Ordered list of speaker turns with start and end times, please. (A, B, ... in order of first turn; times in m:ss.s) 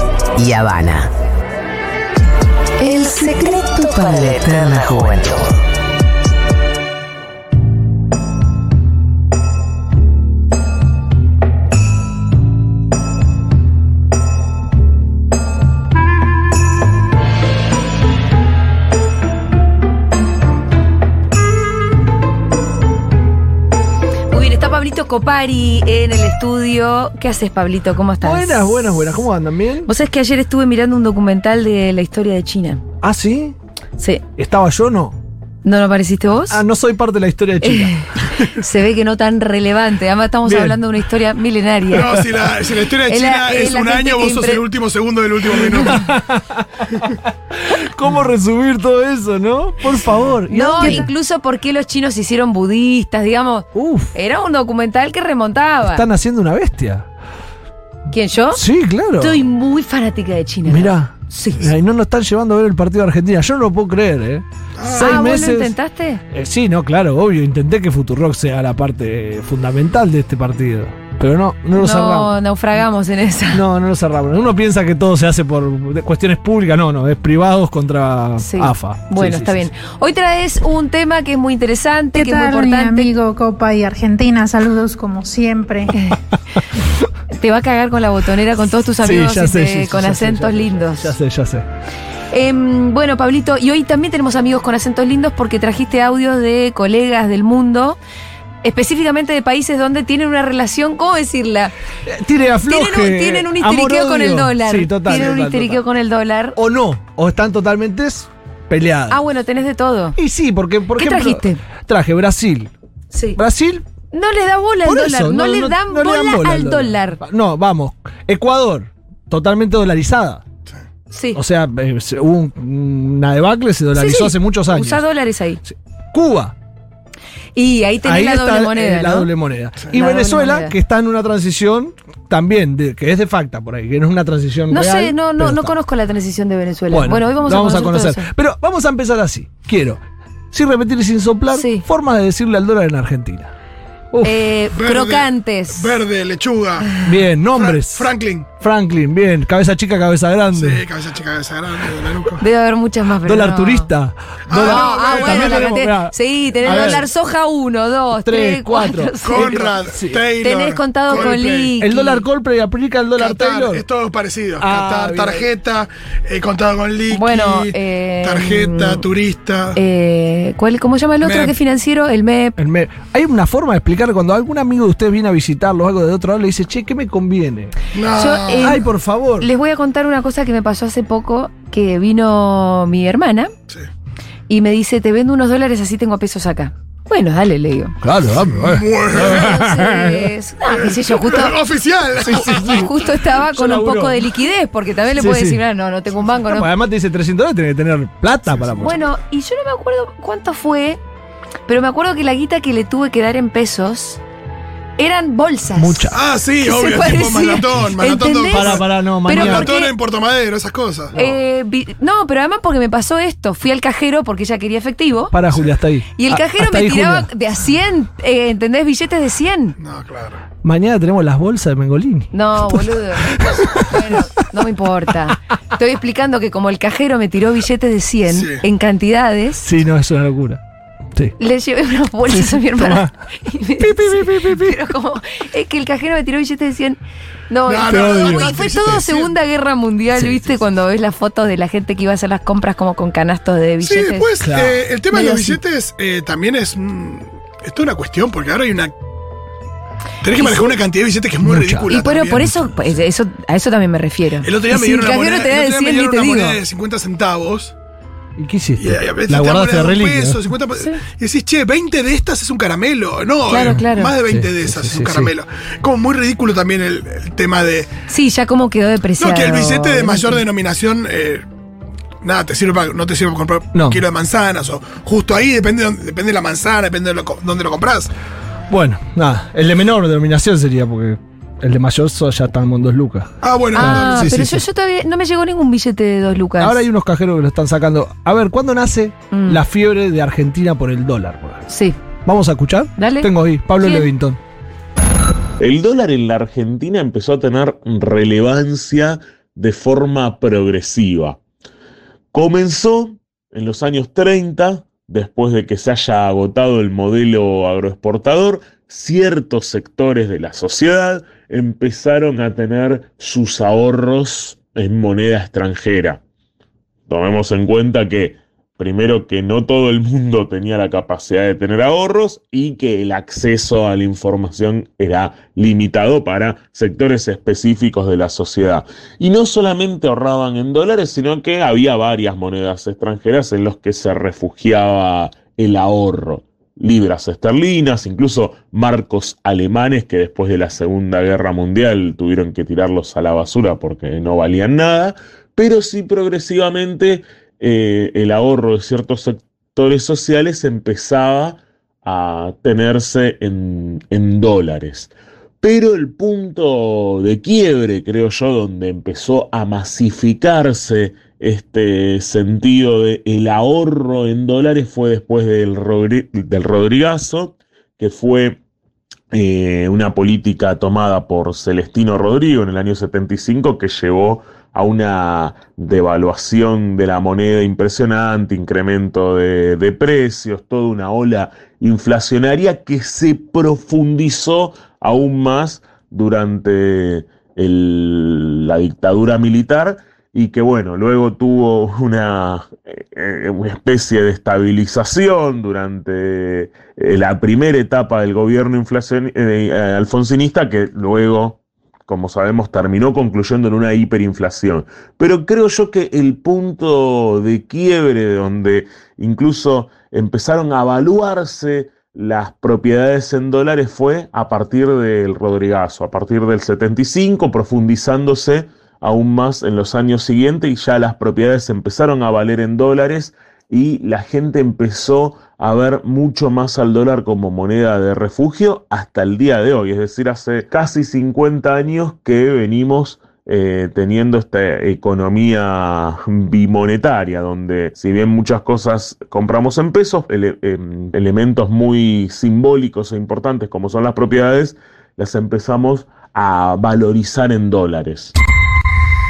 0:00.4-0:01.1 A
0:02.8-0:04.8 B
0:03.8-0:05.5 A
0:24.3-0:29.2 B
0:28.2-0:29.9 C
0:29.8-0:32.8 B
0:33.0-0:33.5 C
0:34.0-0:34.2 B
0:34.4-0:35.2 C
0:35.6-0:36.6 B
0:36.5-0:37.9 C
0:37.6-0:42.2 B
0:40.4-0:40.8 C
0:41.9-0:46.0 D
0:42.0-0:42.4 C
0:43.1-0:44.6 B
0:45.6-0:46.0 B
0:45.6-0:47.0 C
0:47.5-0:51.1 C
0:50.5-0:56.0 B
0:53.7-0:54.1 C
0:55.8-0:57.1 C
0:58.1-0:58.6 B
0:58.5-0:59.4 C
0:59.2-1:01.7 B
1:00.6-1:05.7 C
1:04.8-1:05.2 D
1:04.9-1:06.2 B
1:06.3-1:12.3 C
1:11.7-1:13.6 B
1:13.5-1:19.7 C
1:18.4-1:23.1 B
1:22.1-1:25.9 E
1:25.9-1:26.2 B
1:27.3-1:31.1 B
1:29.0-1:31.6 C
1:32.3-1:38.0 B
1:38.6-1:41.7 B
1:42.0-1:45.8 C
1:42.6-1:46.6 B
1:46.5-1:49.2 C
1:49.1-1:50.2 B
1:50.2-1:52.7 C
1:51.0-1:51.6 B
1:53.1-1:53.4 B
1:53.4-1:53.8 C
1:54.1-1:57.2 B
1:54.8-2:00.4 C
2:01.1-2:01.4 B
2:01.3-2:05.0 C
2:03.9-2:05.6 B
2:05.6-2:06.5 C
2:07.6-2:09.3 B
2:08.0-2:15.7 C
2:09.9-2:10.7 B
2:14.7-2:18.3 B
2:16.9-2:23.5 C
2:21.5-2:21.8 B
2:24.1-2:24.4 C
2:24.2-2:25.9 B
2:24.7-2:28.5 D
2:27.0-2:30.8 C
2:30.5-2:32.4 D
2:32.4-2:33.9 B
2:33.2-2:37.0 C
2:34.5-2:35.8 D
2:34.6-2:39.7 B
2:36.6-2:37.0 D
2:38.2-2:40.2 C
2:39.2-2:41.7 D
2:40.4-2:42.2 B
2:41.1-2:43.8 C
2:43.2-2:49.8 D
2:44.6-2:45.5 C
2:47.1-2:49.0 B
2:49.7-2:52.6 B
2:51.2-2:51.5 D
2:52.6-2:57.7 C
2:57.9-2:58.8 D
2:58.1-2:58.8 B
2:58.6-2:59.5 C
2:59.4-3:03.5 B
3:04.5-3:08.0 B
3:08.0-3:10.3 C
3:08.3-3:09.5 D
3:09.1-3:11.6 B
3:10.7-3:12.9 D
3:12.2-3:14.3 C
3:12.2-3:16.7 B
3:15.1-3:15.6 C
3:16.5-3:19.0 C
3:18.5-3:18.9 D
3:18.8-3:21.0 B
3:21.7-3:24.2 B
3:25.0-3:29.9 B
3:25.8-3:26.2 C
3:26.1-3:31.2 D
3:28.5-3:29.7 C
3:31.1-3:35.3 B
3:35.3-3:37.3 C
3:36.1-3:39.8 B
3:39.8-3:40.4 D
3:40.6-3:44.1 C
3:42.3-3:49.6 B
3:48.3-3:48.6 D
3:49.6-3:50.6 C
3:51.4-4:04.3 B
3:52.3-3:53.2 C
3:53.8-3:54.8 C
3:57.6-3:59.3 D
3:57.8-3:58.6 C
4:00.1-4:00.6 C
4:03.8-4:08.9 D
4:04.4-4:04.8 C
4:05.1-4:05.6 B
4:10.2-4:12.5 D
4:10.3-4:10.8 B
4:11.4-4:12.0 C
4:11.9-4:16.6 B
4:14.4-4:17.7 D
4:18.4-4:20.4 C
4:18.8-4:27.9 D
4:23.5-4:24.1 B
4:23.7-4:25.3 C
4:28.1-4:30.4 B
4:29.2-4:31.4 D
4:32.2-4:38.1 D
4:33.7-4:34.0 C
4:38.7-4:44.6 C
4:43.4-4:44.4 D
4:43.7-4:46.8 B
4:46.6-4:51.7 C
4:49.3-4:49.6 B
4:51.7-4:52.0 B
4:52.2-4:54.4 C
4:53.0-4:54.1 B
4:55.6-5:01.4 F
5:02.3-5:16.2 F
5:17.1-6:08.6 F
6:09.3-7:28.3 F